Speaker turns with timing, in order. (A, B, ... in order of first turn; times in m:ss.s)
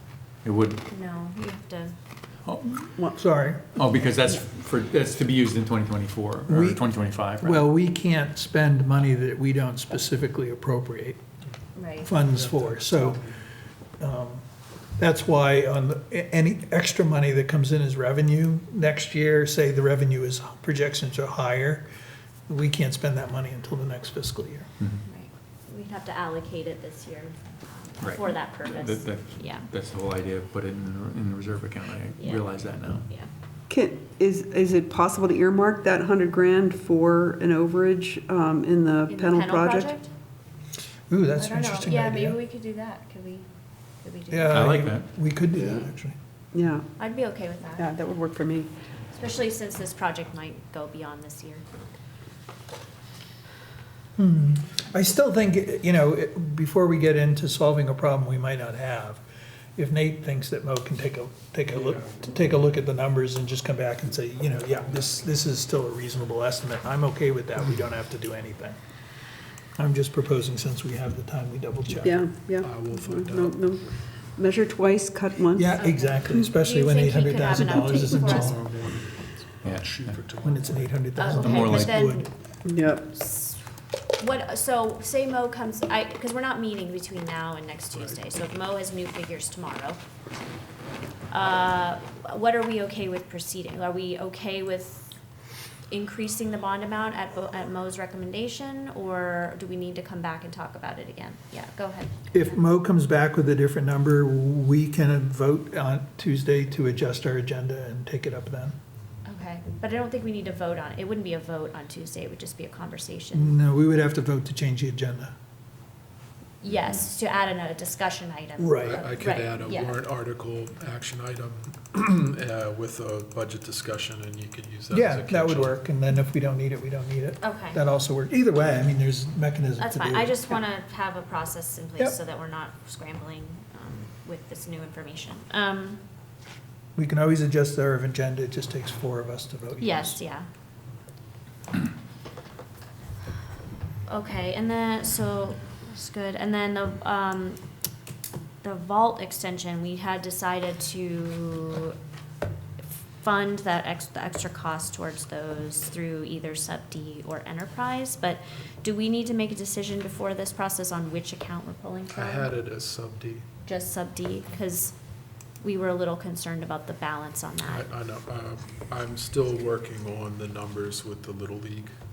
0:00.4-0:00.8 A
0:00.9-0:01.9 B
0:02.4-0:02.9 A
0:03.1-0:03.6 C
0:03.7-0:07.7 A
0:06.5-0:06.8 C
0:07.4-0:11.2 C
0:11.7-0:12.1 B
0:12.0-0:13.2 C
0:12.2-0:13.4 D
0:14.0-0:14.4 C
0:15.0-0:21.9 C
0:22.5-0:24.7 C
0:25.0-0:29.7 B
0:28.0-0:33.0 A
0:32.2-0:32.5 B
0:33.0-0:33.3 B
0:33.7-0:39.9 E
0:39.1-0:40.1 B
0:41.1-0:42.4 C
0:41.4-0:43.5 B
0:44.0-0:44.7 B
0:44.3-0:46.2 C
0:44.5-0:45.1 A
0:46.5-0:46.9 E
0:47.0-0:48.0 B
0:47.8-0:48.7 E
0:49.1-0:51.6 B
0:54.2-0:59.2 C
0:59.8-1:08.8 C
1:01.7-1:02.5 D
1:09.8-1:12.2 C
1:11.9-1:16.5 E
1:12.6-1:14.1 D
1:15.5-1:18.6 C
1:15.7-1:18.6 B
1:17.6-1:18.3 E
1:18.3-1:21.2 D
1:19.6-1:20.2 A
1:20.4-1:22.3 C
1:21.1-1:22.3 B
1:21.4-1:22.1 A
1:22.6-1:23.0 E
1:23.1-1:23.6 B
1:24.2-1:30.0 B
1:27.9-1:28.2 D
1:31.3-1:35.1 B
1:35.9-1:42.4 B
1:42.3-1:48.8 C
1:49.2-1:53.6 B
1:53.3-1:55.3 C
1:56.6-2:00.0 B
1:58.6-1:59.0 C
1:58.8-2:05.8 D
2:04.9-2:10.6 C
2:07.4-2:07.8 B
2:09.8-2:16.0 B
2:17.0-2:20.1 C
2:19.8-2:20.5 B
2:24.1-2:27.6 B
2:28.6-2:32.0 B
2:32.8-2:42.5 B
2:42.1-2:43.5 D
2:43.6-2:44.9 B
2:45.6-2:47.9 B
2:47.6-2:52.0 D